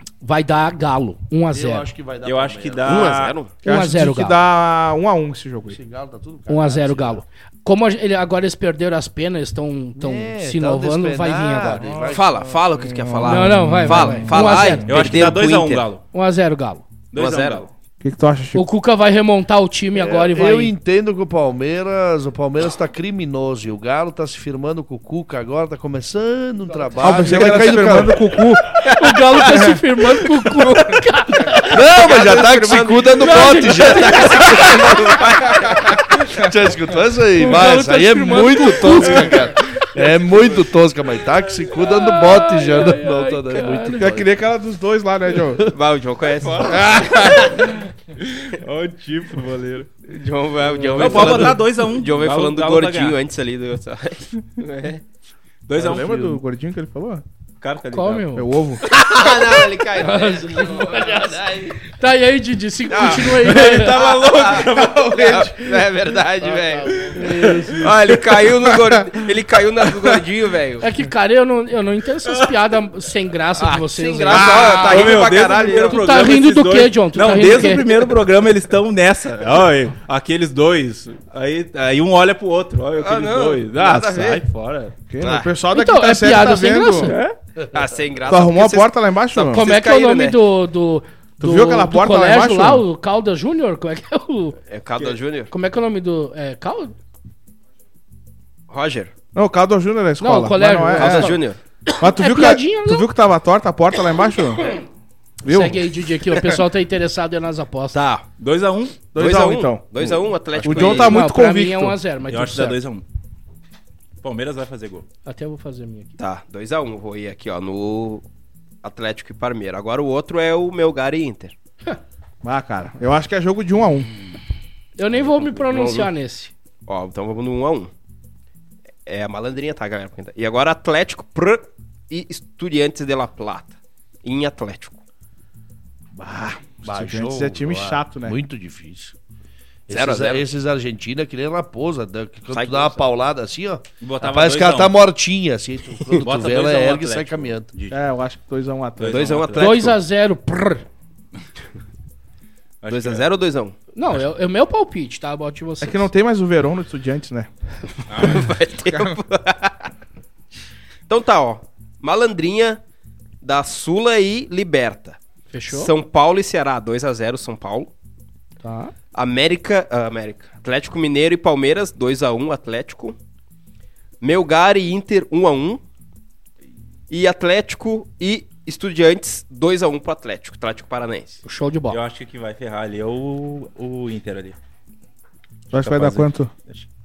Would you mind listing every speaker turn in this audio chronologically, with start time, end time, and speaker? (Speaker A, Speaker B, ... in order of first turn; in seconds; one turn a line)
Speaker A: 0.2-1.9
Speaker B: 1.5-3.2
Speaker C: 2.2-3.3
Speaker D: 2.8-3.5
Speaker A: 3.6-4.4
Speaker E: 3.6-5.8
Speaker B: 5.7-7.2
Speaker A: 6.5-11.8
Speaker B: 10.0-12.6
Speaker E: 11.8-12.2
Speaker D: 12.1-15.8
Speaker E: 12.8-14.8
Speaker A: 13.2-14.9
Speaker C: 14.8-16.0
Speaker A: 16.1-16.8
Speaker C: 17.1-17.7
Speaker D: 17.1-17.6
Speaker E: 18.0-18.6
Speaker A: 18.5-20.7
Speaker B: 19.9-28.3
Speaker E: 27.0-28.8
Speaker A: 27.1-27.6
Speaker D: 28.8-36.1
Speaker A: 28.9-31.8
Speaker E: 29.5-29.8
Speaker B: 31.7-34.8
Speaker A: 33.2-35.0
Speaker B: 36.3-44.3
Speaker A: 37.4-39.6
Speaker A: 41.8-44.1
Speaker E: 44.0-45.7
Speaker D: 45.7-47.6
Speaker C: 46.4-49.9
Speaker E: 46.7-47.7
Speaker D: 50.1-55.0
Speaker C: 50.9-53.2
Speaker B: 51.0-51.5
Speaker C: 55.7-56.4
Speaker E: 55.8-57.2
Speaker C: 57.6-58.3
Speaker A: 57.9-58.5
Speaker E: 58.4-58.8
Speaker D: 58.8-61.7
Speaker A: 60.0-64.0
Speaker D: 62.9-70.9
Speaker C: 63.3-65.5
Speaker E: 64.7-65.5
Speaker B: 66.4-67.8
Speaker C: 66.9-67.9
Speaker E: 68.7-69.0
Speaker A: 70.8-75.0
Speaker C: 72.3-72.5
Speaker D: 73.6-76.0
Speaker E: 74.3-75.9
Speaker C: 74.7-84.9
Speaker A: 75.9-77.9
Speaker D: 83.0-84.4
Speaker E: 85.1-87.1
Speaker D: 85.2-85.5
Speaker A: 85.7-87.2
Speaker C: 87.1-87.3
Speaker D: 87.7-90.4
Speaker E: 88.3-89.6
Speaker A: 89.5-94.5
Speaker E: 91.4-92.8
Speaker D: 94.7-95.5
Speaker A: 95.5-97.0
Speaker D: 98.7-99.1
Speaker E: 99.3-101.4
Speaker A: 100.2-101.4
Speaker D: 101.0-101.6
Speaker A: 102.0-103.1
Speaker E: 102.0-104.8
Speaker E: 105.4-105.8
Speaker A: 105.4-108.0
Speaker D: 107.9-108.3
Speaker C: 108.4-109.1
Speaker E: 109.1-109.9
Speaker D: 109.1-111.2
Speaker C: 110.6-110.9
Speaker E: 110.6-112.0
Speaker A: 110.8-112.8
Speaker C: 112.3-113.0
Speaker C: 114.2-115.0
Speaker A: 115.2-116.1
Speaker D: 116.2-118.2
Speaker D: 118.8-121.5
Speaker E: 122.4-124.1
Speaker A: 125.0-126.5
Speaker D: 125.3-126.1
Speaker D: 126.9-127.9
Speaker D: 129.1-135.0
Speaker E: 136.1-138.4
Speaker B: 136.8-139.1
Speaker B: 139.9-147.7
Speaker D: 139.9-140.4
Speaker D: 142.5-143.0
Speaker C: 144.0-145.0
Speaker C: 146.2-148.0
Speaker E: 147.9-149.3
Speaker C: 149.0-149.8
Speaker D: 149.1-149.9
Speaker B: 149.1-149.9
Speaker A: 149.6-150.8
Speaker C: 152.8-153.2
Speaker D: 152.9-153.7
Speaker A: 153.9-156.1
Speaker E: 155.8-157.5
Speaker C: 158.1-158.5
Speaker D: 158.2-159.9
Speaker E: 158.9-159.2
Speaker D: 161.1-162.8
Speaker D: 163.4-165.2
Speaker A: 165.5-165.9
Speaker D: 165.7-167.9
Speaker A: 168.6-168.9
Speaker D: 169.1-173.2
Speaker D: 174.2-175.8
Speaker D: 177.1-181.4
Speaker A: 181.4-182.0
Speaker C: 181.9-184.6
Speaker C: 185.7-186.9
Speaker E: 185.7-186.5